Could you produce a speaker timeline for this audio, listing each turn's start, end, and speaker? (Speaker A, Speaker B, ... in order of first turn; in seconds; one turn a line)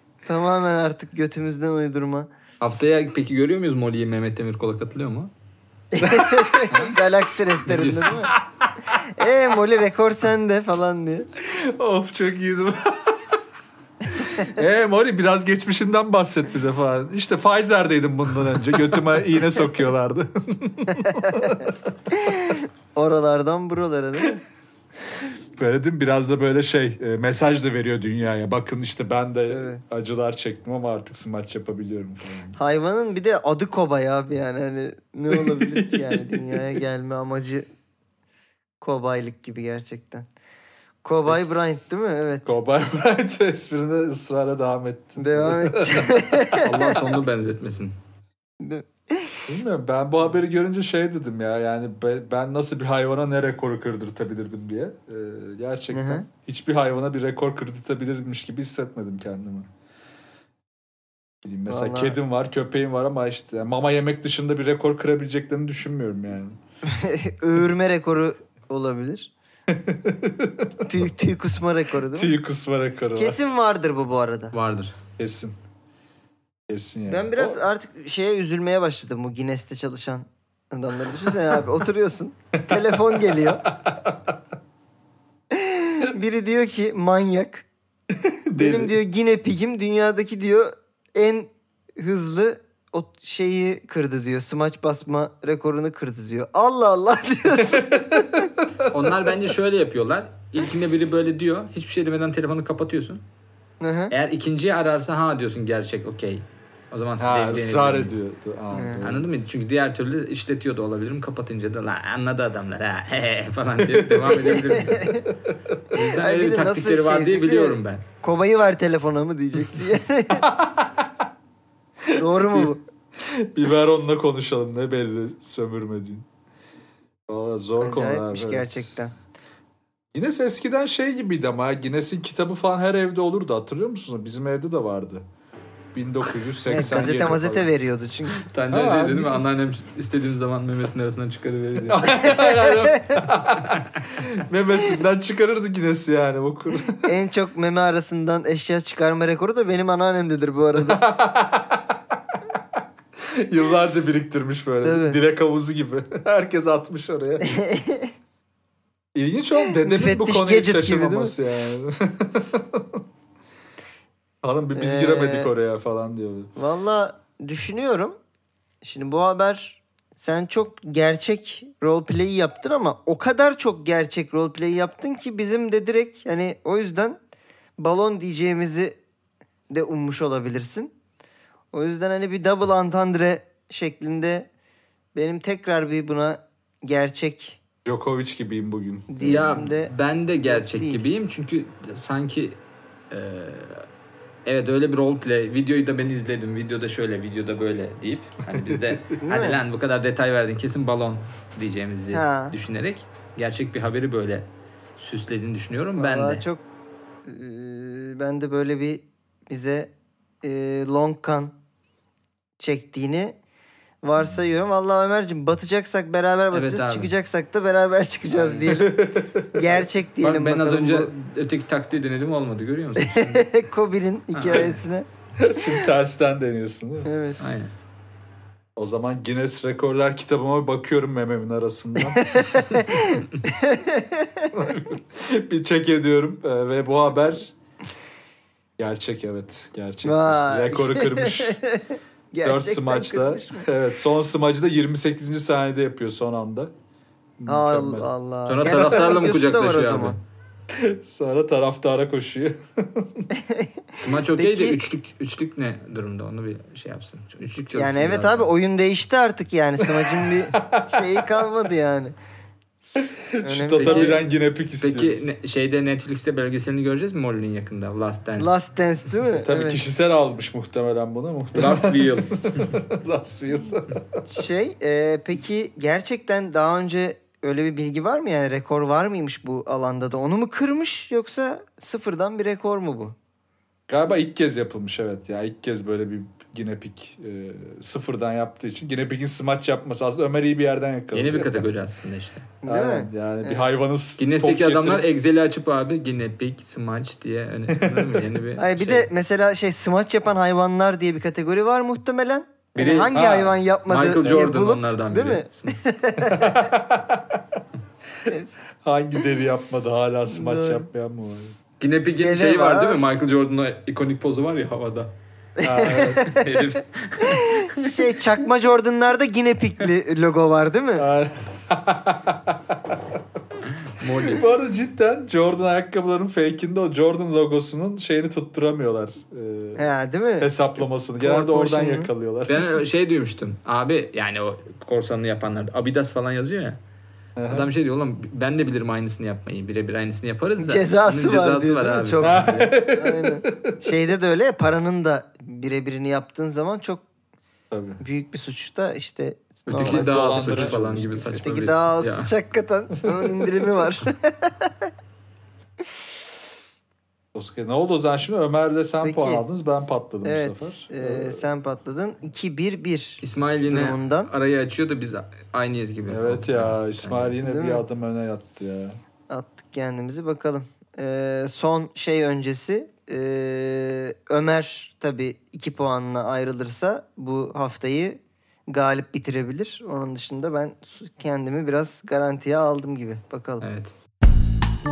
Speaker A: 0.2-2.3
Speaker B: 2.6-5.3
Speaker A: 5.9-8.3
Speaker C: 6.0-7.0
Speaker B: 7.7-8.3
Speaker C: 8.2-9.1
Speaker A: 9.1-11.3
Speaker C: 11.4-13.2
Speaker C: 14.1-22.5
Speaker A: 21.0-21.6
Speaker A: 22.1-24.4
Speaker C: 25.6-32.6
Speaker A: 29.5-29.8
Speaker A: 32.6-37.7
Speaker C: 35.3-36.8
Speaker A: 38.8-40.3
Speaker A: 41.0-42.5
Speaker C: 42.5-47.0
Speaker A: 45.2-47.0
Speaker B: 46.6-48.0
Speaker A: 48.6-49.6
Speaker C: 49.5-59.7
Speaker A: 55.9-56.3
Speaker C: 61.4-66.6
Speaker A: 61.7-62.2
Speaker A: 66.8-69.3
Speaker C: 69.7-71.0
Speaker A: 70.8-72.3
Speaker C: 72.1-73.4
Speaker A: 73.2-74.5
Speaker B: 74.5-75.0
Speaker C: 75.2-75.6
Speaker C: 76.7-77.6
Speaker A: 77.1-83.6
Speaker C: 82.6-84.2
Speaker A: 85.5-87.7
Speaker C: 88.1-89.0
Speaker A: 88.5-98.5
Speaker C: 97.7-98.9
Speaker B: 98.9-103.2
Speaker A: 103.8-104.1
Speaker B: 104.1-108.2
Speaker C: 107.2-109.3
Speaker A: 108.7-109.0
Speaker B: 109.0-115.2
Speaker C: 113.9-115.6
Speaker A: 114.8-115.2
Speaker B: 115.9-118.0
Speaker A: 116.0-120.5
Speaker C: 120.4-121.1
Speaker C: 122.0-126.2
Speaker A: 122.1-122.8
Speaker C: 127.3-129.0
Speaker A: 127.8-129.1
Speaker C: 130.1-135.2
Speaker C: 135.9-137.7
Speaker A: 136.7-138.4
Speaker B: 138.4-142.3
Speaker C: 138.7-139.4
Speaker C: 141.9-147.1
Speaker A: 142.2-143.2
Speaker A: 147.0-151.0
Speaker C: 150.8-151.9
Speaker C: 153.2-157.6
Speaker A: 154.8-155.2
Speaker A: 157.4-158.1
Speaker C: 159.2-163.0
Speaker A: 159.7-161.3
Speaker C: 164.4-166.5
Speaker A: 164.8-165.5
Speaker A: 166.6-168.2
Speaker A: 168.8-177.2
Speaker A: 177.8-179.0
Speaker A: 179.7-180.9
Speaker A: 181.7-184.5
Speaker A: 185.1-187.6
Speaker C: 187.8-189.6
Speaker A: 189.1-189.9
Speaker B: 189.2-192.6
Speaker A: 190.5-191.0
Speaker B: 193.1-193.9
Speaker B: 194.4-206.4
Speaker C: 198.5-199.0
Speaker A: 199.2-199.6
Speaker A: 202.1-202.6
Speaker A: 206.0-206.6
Speaker A: 207.2-211.6
Speaker A: 212.6-213.4
Speaker A: 214.0-219.0
Speaker B: 216.5-217.1
Speaker B: 218.3-218.7
Speaker C: 218.6-219.8
Speaker A: 219.5-221.1
Speaker B: 220.2-223.5
Speaker A: 223.0-225.1
Speaker B: 224.3-224.8
Speaker C: 225.4-227.1
Speaker A: 227.1-227.4
Speaker B: 227.4-227.7
Speaker C: 228.8-232.6
Speaker A: 232.2-234.5
Speaker C: 234.5-237.5
Speaker C: 238.8-241.6
Speaker A: 240.0-243.7
Speaker C: 242.4-246.7
Speaker C: 247.4-248.1
Speaker A: 247.5-250.2
Speaker B: 248.5-250.2
Speaker C: 250.7-253.3
Speaker A: 253.3-254.8
Speaker B: 254.0-258.5
Speaker A: 257.8-262.1
Speaker C: 260.0-261.5
Speaker C: 263.0-265.3
Speaker A: 263.4-264.2
Speaker B: 263.8-264.2
Speaker B: 264.8-268.6
Speaker A: 268.4-269.8
Speaker C: 269.4-274.2
Speaker B: 271.5-272.7
Speaker A: 274.3-283.2
Speaker C: 283.9-291.7
Speaker B: 291.1-292.5
Speaker A: 292.6-293.7
Speaker C: 292.6-295.1
Speaker B: 294.2-299.1
Speaker C: 297.7-298.2
Speaker A: 298.6-306.7
Speaker B: 302.8-305.9
Speaker C: 303.1-303.5
Speaker C: 306.2-307.6
Speaker A: 308.3-308.6
Speaker C: 308.8-311.6
Speaker A: 310.3-310.9
Speaker B: 311.8-315.1
Speaker A: 312.2-313.0
Speaker A: 315.6-316.4
Speaker C: 315.6-316.4
Speaker B: 315.8-318.0
Speaker A: 317.3-321.1
Speaker C: 321.0-323.0
Speaker B: 323.9-324.4
Speaker C: 324.1-332.7
Speaker A: 329.8-332.1
Speaker B: 332.5-336.8
Speaker C: 337.4-337.7
Speaker B: 337.5-342.7
Speaker A: 340.6-347.1
Speaker C: 342.2-343.8
Speaker C: 347.7-348.0
Speaker A: 348.0-354.9
Speaker B: 349.7-352.3
Speaker C: 349.8-351.3
Speaker C: 353.0-353.5
Speaker C: 357.4-361.4
Speaker A: 359.0-359.4
Speaker A: 360.2-364.3
Speaker B: 363.2-367.4
Speaker C: 366.1-369.0
Speaker A: 367.4-367.8
Speaker A: 369.3-383.6
Speaker B: 383.6-383.9